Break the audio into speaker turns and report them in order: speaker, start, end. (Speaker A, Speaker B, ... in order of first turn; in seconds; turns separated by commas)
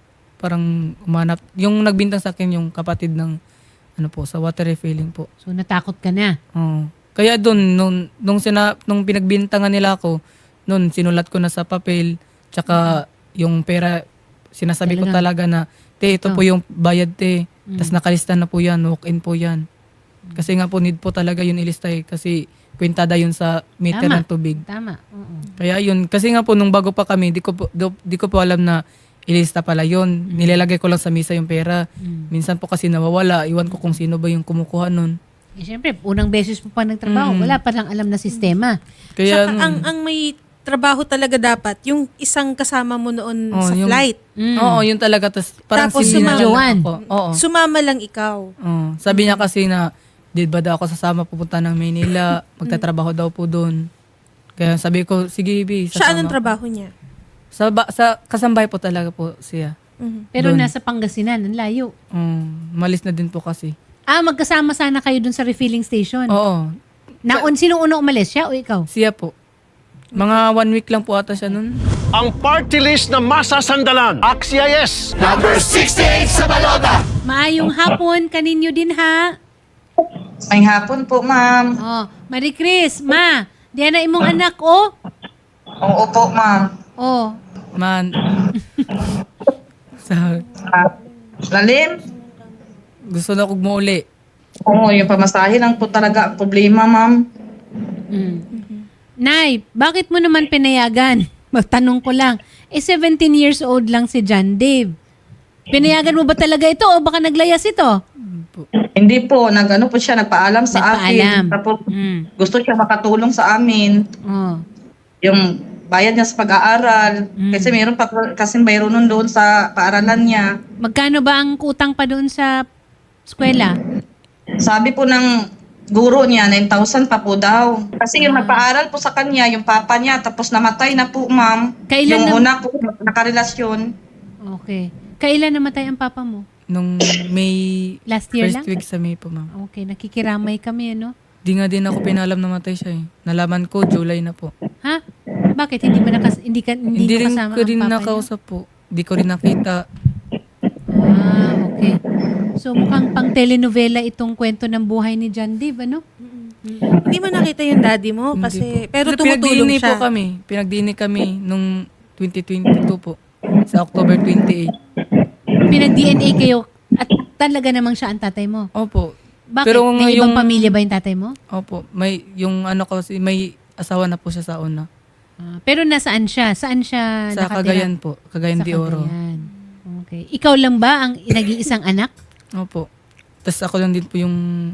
Speaker A: 0.4-3.3, Speaker A: 4.0-5.3, Speaker B: 5.4-6.3, Speaker A: 6.5-10.2, Speaker A: 10.7-14.0, Speaker B: 12.7-13.0, Speaker A: 14.6-19.6, Speaker B: 14.8-15.2, Speaker B: 16.1-16.4, Speaker B: 17.7-17.9, Speaker A: 20.4-24.6, Speaker B: 23.9-25.5, Speaker A: 25.6-28.8, Speaker A: 29.3-31.8, Speaker B: 30.3-30.6, Speaker B: 32.0-32.3, Speaker A: 32.3-35.1, Speaker B: 35.6-38.7, Speaker A: 37.0-37.6, Speaker A: 39.2-39.9, Speaker C: 39.2-44.2, Speaker A: 43.5-44.0, Speaker B: 44.4-44.8, Speaker A: 44.6-47.4, Speaker C: 45.7-48.5, Speaker B: 46.0-46.8, Speaker A: 48.6-49.8, Speaker C: 49.1-49.4, Speaker A: 50.4-53.8, Speaker A: 54.6-56.4, Speaker C: 55.9-56.9, Speaker A: 57.5-59.7, Speaker C: 60.0-60.3, Speaker B: 60.3-61.9, Speaker A: 60.4-60.7, Speaker A: 62.1-63.7, Speaker B: 64.1-66.3, Speaker A: 66.3-66.7, Speaker B: 67.3-68.9, Speaker A: 68.9-69.3, Speaker C: 70.1-70.4, Speaker A: 70.2-71.7, Speaker D: 72.1-76.2, Speaker B: 77.2-79.3, Speaker E: 80.5-81.7, Speaker B: 81.8-84.8, Speaker E: 85.8-86.7, Speaker B: 87.0-87.3, Speaker A: 87.8-88.1, Speaker B: 88.5-88.8, Speaker A: 90.0-90.4, Speaker C: 90.2-91.3, Speaker E: 91.5-91.9, Speaker C: 92.0-92.8, Speaker A: 93.1-94.0, Speaker E: 94.7-97.1, Speaker B: 98.1-98.4, Speaker C: 98.5-98.8, Speaker B: 99.2-104.9, Speaker B: 105.7-107.9, Speaker A: 108.2-108.7, Speaker E: 109.0-114.0, Speaker B: 110.7-112.3, Speaker B: 114.3-114.6, Speaker E: 115.2-120.5, Speaker B: 117.4-117.8, Speaker B: 120.8-122.6, Speaker B: 123.3-123.8, Speaker E: 124.6-125.3, Speaker E: 125.9-133.9, Speaker B: 128.2-128.6, Speaker B: 131.9-132.4, Speaker B: 134.4-136.4, Speaker A: 136.7-139.5, Speaker B: 138.1-138.7, Speaker B: 139.6-141.1, Speaker A: 141.4-144.5, Speaker B: 145.6-148.3, Speaker A: 146.9-149.8, Speaker B: 150.9-152.0, Speaker B: 152.6-156.0, Speaker C: 156.2-160.0, Speaker B: 156.6-157.0, Speaker A: 158.3-163.2, Speaker A: 163.7-164.7, Speaker B: 165.7-168.7, Speaker A: 168.8-169.1, Speaker B: 169.5-171.3, Speaker A: 169.6-170.7, Speaker A: 171.5-174.8, Speaker B: 175.4-177.9, Speaker A: 177.3-179.1, Speaker B: 178.6-182.1, Speaker C: 179.5-179.8, Speaker A: 182.6-182.9, Speaker A: 183.4-184.4